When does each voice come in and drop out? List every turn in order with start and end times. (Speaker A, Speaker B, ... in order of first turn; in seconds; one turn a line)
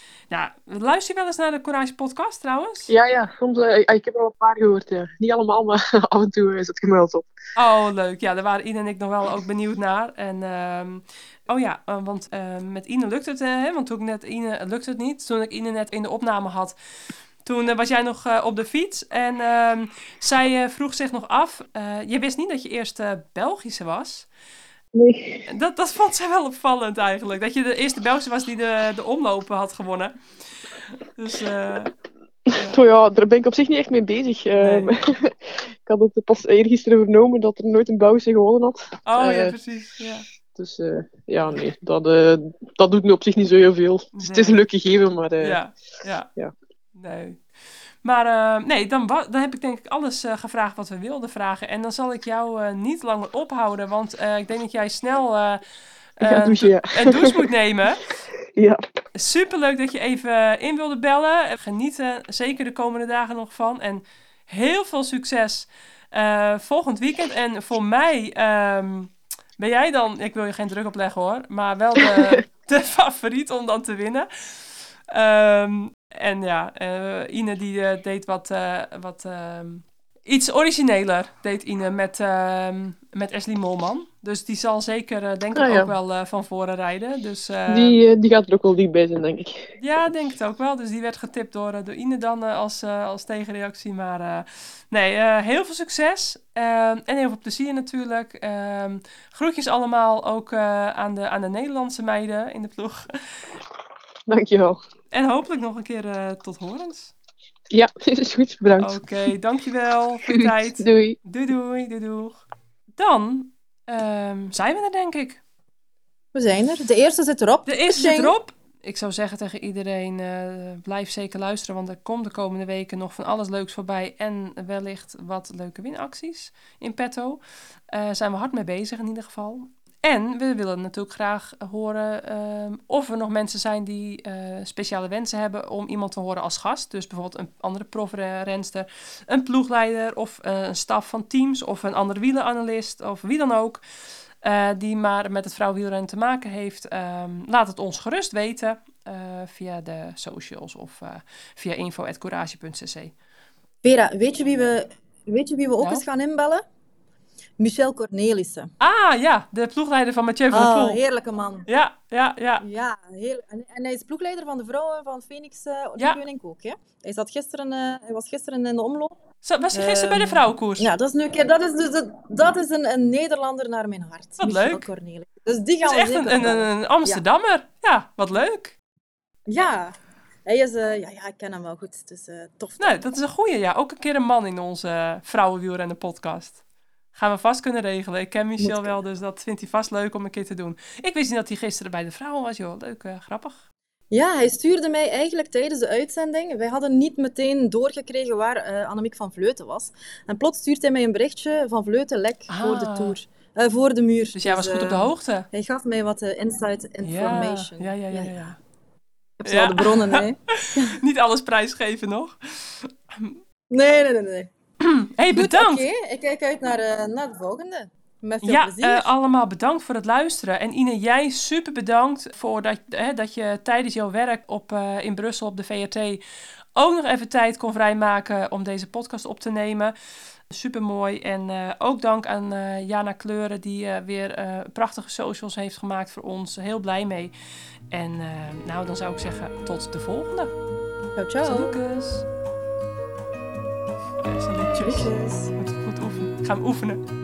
Speaker A: 0.3-2.9
Speaker B: 2.9-7.3
Speaker A: 7.5-16.8
Speaker A: 17.4-24.3
Speaker B: 24.9-25.4
Speaker A: 25.5-30.1
Speaker A: 31.0-31.9
Speaker B: 32.5-39.5
Speaker A: 34.6-34.9
Speaker A: 39.0-40.2
Speaker B: 40.5-45.6
Speaker A: 44.1-44.6
Speaker A: 45.4-46.3
Speaker A: 46.9-47.4
Speaker A: 48.0-55.6
Speaker A: 56.2-58.1
Speaker B: 56.2-57.4
Speaker B: 58.5-58.8
Speaker A: 59.1-88.0
Speaker B: 85.5-85.9
Speaker B: 87.7-89.7
Speaker A: 89.8-103.4
Speaker B: 104.3-104.8
Speaker A: 105.1-107.1
Speaker B: 107.7-109.0
Speaker A: 108.8-112.4
Speaker B: 110.3-111.2
Speaker A: 113.0-115.4
Speaker C: 116.3-118.3
Speaker A: 117.7-143.8
Speaker A: 144.4-153.1
Speaker C: 153.8-156.6
Speaker C: 157.6-158.7
Speaker A: 158.8-161.0
Speaker C: 160.5-161.7
Speaker A: 161.7-162.6
Speaker C: 162.6-169.2
Speaker A: 169.4-170.9
Speaker C: 169.7-177.2
Speaker A: 174.4-174.9
Speaker A: 175.8-178.7
Speaker C: 179.5-179.9
Speaker C: 180.4-183.0
Speaker A: 182.8-186.6
Speaker A: 187.1-193.6
Speaker C: 188.6-188.9
Speaker C: 194.1-208.3
Speaker A: 202.5-203.2
Speaker A: 204.3-205.5
Speaker A: 207.0-208.6
Speaker C: 209.4-210.9
Speaker A: 209.4-213.4
Speaker C: 213.7-214.5
Speaker A: 214.8-215.8
Speaker C: 215.3-219.1
Speaker A: 218.4-226.2
Speaker A: 226.8-229.9
Speaker A: 230.5-237.3
Speaker A: 237.9-240.5
Speaker C: 241.2-241.8
Speaker A: 241.4-242.3
Speaker A: 244.2-247.0
Speaker C: 244.8-245.5